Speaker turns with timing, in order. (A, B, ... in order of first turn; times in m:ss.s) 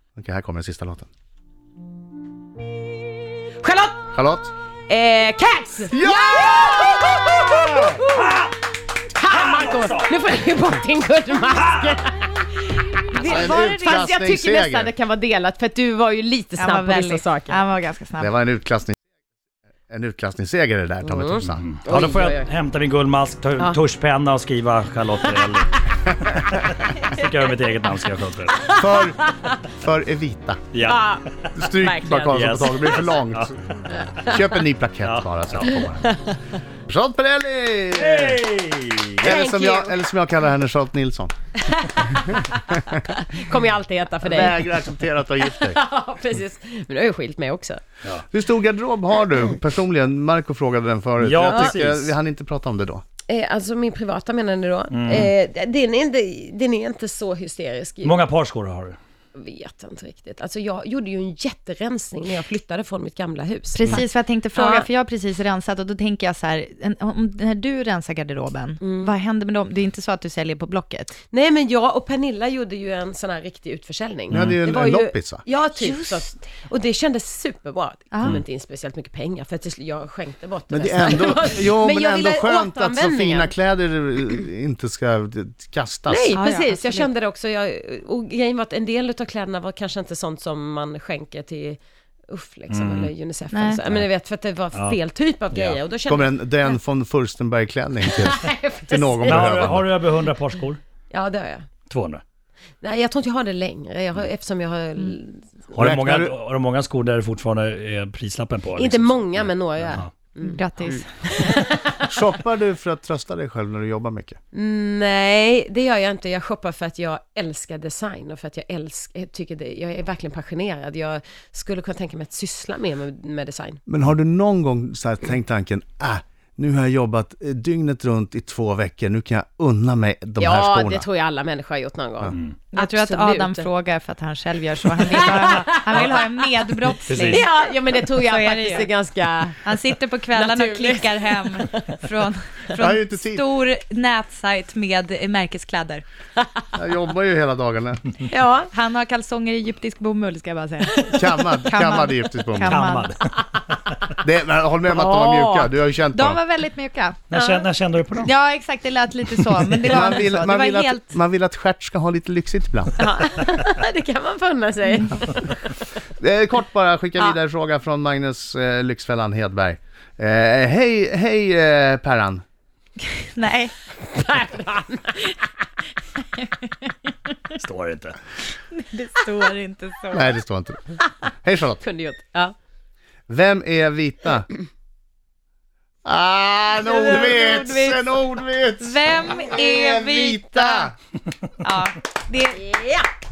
0:00.2-0:01.1 A
0:03.6-0:04.1 B
0:04.1-0:04.5 A
0:04.9-0:08.3 B
0:05.9-0:07.8 A
0:07.7-0:08.6 C
0:09.1-0:17.6 B
0:09.2-0:10.1 C
0:11.6-0:12.0 C
0:13.1-0:14.2 D
0:13.2-0:14.9 A
0:16.6-0:18.3 D
0:18.2-0:19.0 A
0:19.9-0:21.7 A
0:21.0-0:22.5 B
0:21.5-0:28.7 C
0:28.6-0:29.6 B
0:28.7-0:30.7 A
0:30.7-0:31.5 C
0:30.8-0:32.4 B
0:31.5-0:36.1 A
0:32.3-0:34.3 C
0:35.0-0:35.8 C
0:36.0-0:36.4 B
0:36.9-0:38.4 A
0:38.0-0:39.3 C
0:39.2-0:41.3 A
0:39.2-0:40.0 B
0:41.6-0:44.8 B
0:44.2-0:45.8 A
0:45.4-0:47.8 B
0:48.3-0:53.0 A
0:51.2-0:52.1 C
0:53.3-0:58.2 B
0:54.9-0:55.3 C
0:58.0-0:59.0 C
0:59.4-1:04.0 B
1:03.7-1:11.2 D
1:04.5-1:04.9 B
1:08.8-1:09.2 B
1:11.2-1:23.5 B
1:14.3-1:14.6 C
1:14.3-1:15.4 A
1:15.8-1:16.2 D
1:20.7-1:26.3 A
1:26.1-1:36.7 B
1:26.3-1:27.1 D
1:32.7-1:33.1 C
1:33.5-1:33.8 D
1:34.7-1:35.0 C
1:35.5-1:35.8 C
1:36.1-1:39.9 A
1:38.0-1:40.2 B
1:39.2-1:40.8 C
1:41.1-1:41.7 B
1:41.9-1:42.2 C
1:42.8-1:45.5 B
1:45.7-1:50.1 C
1:45.8-1:46.3 A
1:48.7-1:52.2 B
1:50.4-1:51.1 D
1:52.1-1:54.4 A
1:54.5-2:03.8 B
2:03.9-2:11.0 A
2:10.4-2:13.7 B
2:12.7-2:17.5 D
2:14.9-2:16.6 B
2:17.1-2:17.4 C
2:17.2-2:19.6 B
2:18.1-2:18.9 D
2:19.6-2:26.0 D
2:20.3-2:22.0 B
2:22.8-2:23.4 A
2:26.8-2:28.2 A
2:28.2-2:28.7 B
2:28.7-2:33.2 D
2:30.9-2:31.6 B
2:31.1-2:32.8 A
2:32.6-2:33.7 C
2:34.2-2:36.4 A
2:34.9-2:35.7 B
2:36.1-2:37.2 D
2:37.3-2:38.3 C
2:37.3-2:37.7 B
2:38.2-2:41.1 D
2:39.3-2:39.8 C
2:39.9-2:43.0 A
2:43.0-2:45.8 B
2:46.2-2:52.4 A
2:53.0-2:53.8 D
2:53.9-2:55.7 B
2:57.6-2:58.2 C
2:58.7-3:00.4 D
3:00.1-3:01.8 A
3:01.8-3:02.5 B
3:03.3-3:04.5 A
3:06.0-3:10.9 A
3:06.8-3:08.2 D
3:08.8-3:10.9 D
3:09.3-3:09.7 B
3:11.6-3:12.6 D
3:12.5-3:13.1 B